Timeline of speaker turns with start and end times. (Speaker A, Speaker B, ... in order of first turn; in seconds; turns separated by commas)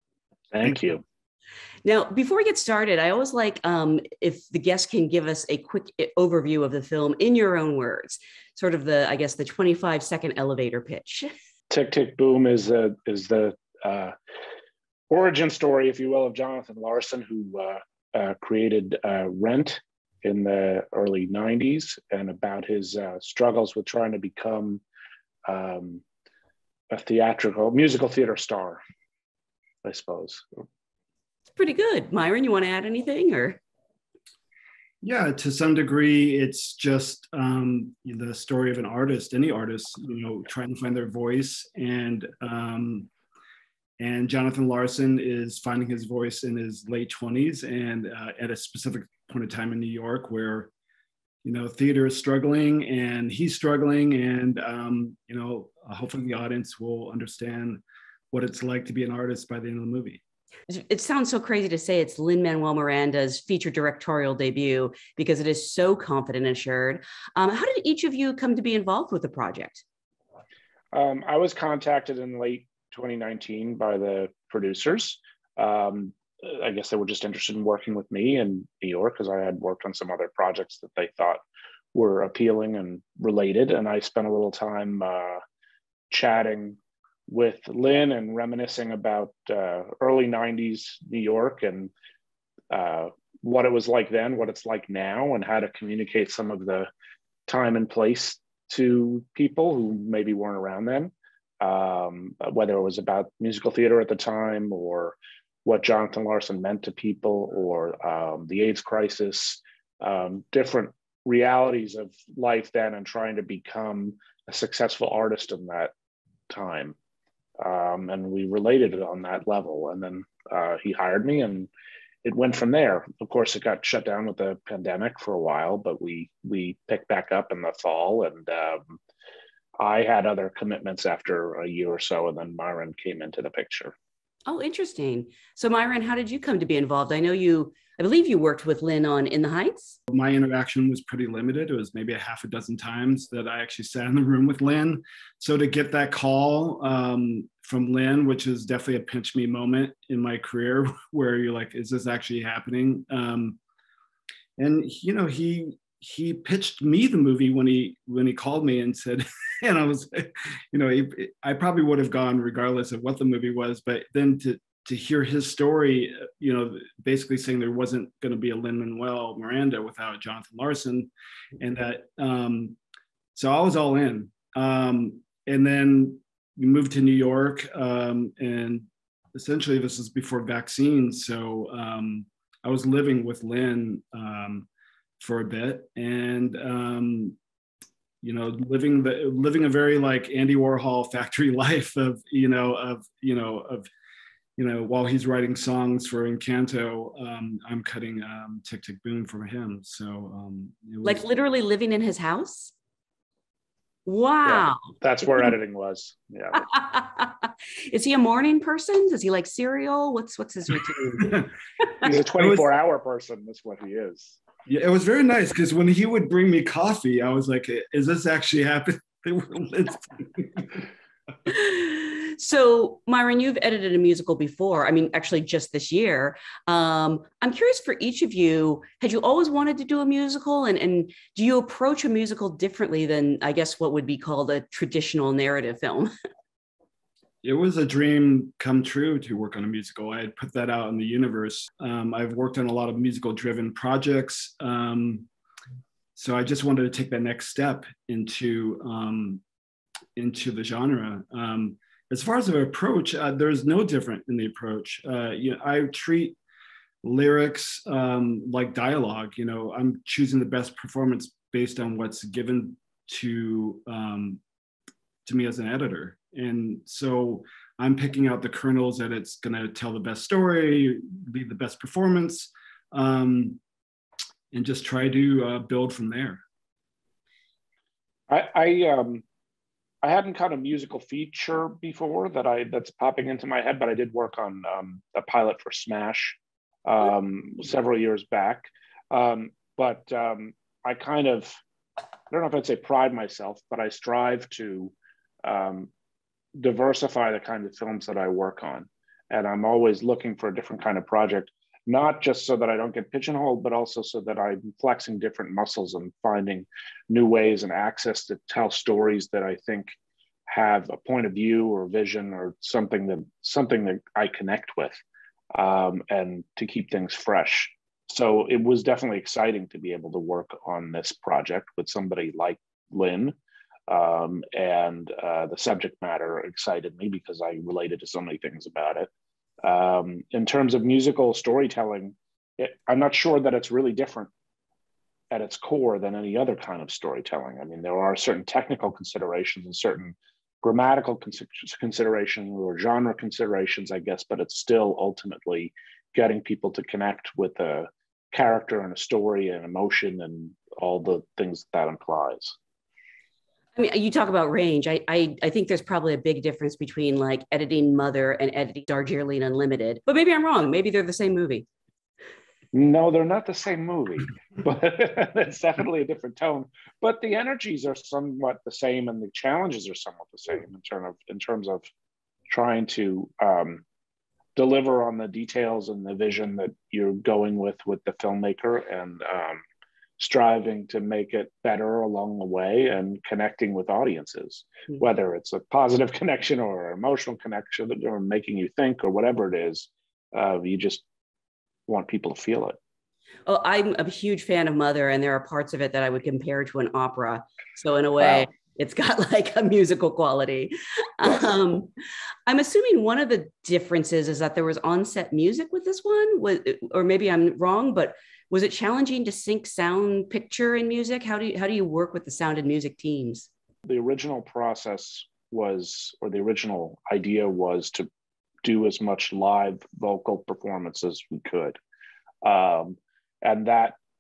Speaker A: 0.5-1.0, Speaker B: 1.9-11.3, Speaker A: 11.7-14.2, Speaker A: 15.1-24.8, Speaker A: 25.5-26.0, Speaker A: 26.9-28.8, Speaker A: 29.8-30.6, Speaker B: 31.6-33.6, Speaker C: 35.0-43.1, Speaker C: 44.0-50.7, Speaker C: 51.4-60.2, Speaker B: 60.7-69.8, Speaker A: 70.9-81.4, Speaker A: 81.9-85.4, Speaker A: 86.1-91.9, Speaker A: 92.7-96.9, Speaker A: 97.5-115.9, Speaker A: 116.5-117.0, Speaker A: 117.6-121.7, Speaker A: 122.2-129.0, Speaker A: 129.8-133.9, Speaker B: 134.5-140.0, Speaker C: 140.1-153.6, Speaker C: 154.6-172.8, Speaker C: 173.3-184.7, Speaker C: 185.2-187.4, Speaker C: 188.2-193.9, Speaker C: 194.6-201.2, Speaker B: 201.0-202.7, Speaker B: 204.1-204.9, Speaker A: 204.4-206.7, Speaker B: 206.7-211.4, Speaker A: 212.0-214.4, Speaker C: 214.7-220.8, Speaker B: 221.5-236.1, Speaker C: 237.4-245.3, Speaker C: 246.2-249.4, Speaker C: 250.2-256.4, Speaker C: 257.0-264.4, Speaker C: 265.2-273.6, Speaker C: 274.5-276.4, Speaker A: 278.3-279.2, Speaker A: 280.0-291.6, Speaker A: 292.3-294.9, Speaker A: 295.4-295.9, Speaker A: 296.6-309.9, Speaker A: 310.5-315.0, Speaker A: 315.5-323.4, Speaker A: 323.9-329.1, Speaker A: 329.6-334.3, Speaker A: 335.3-352.6, Speaker B: 353.8-361.7, Speaker A: 362.7-371.9, Speaker A: 372.5-373.8, Speaker A: 374.6-379.6, Speaker A: 380.2-391.0, Speaker A: 391.9-392.8, Speaker B: 393.5-401.9, Speaker B: 402.5-413.5, Speaker A: 413.9-418.1, Speaker A: 418.6-421.8, Speaker A: 422.4-423.9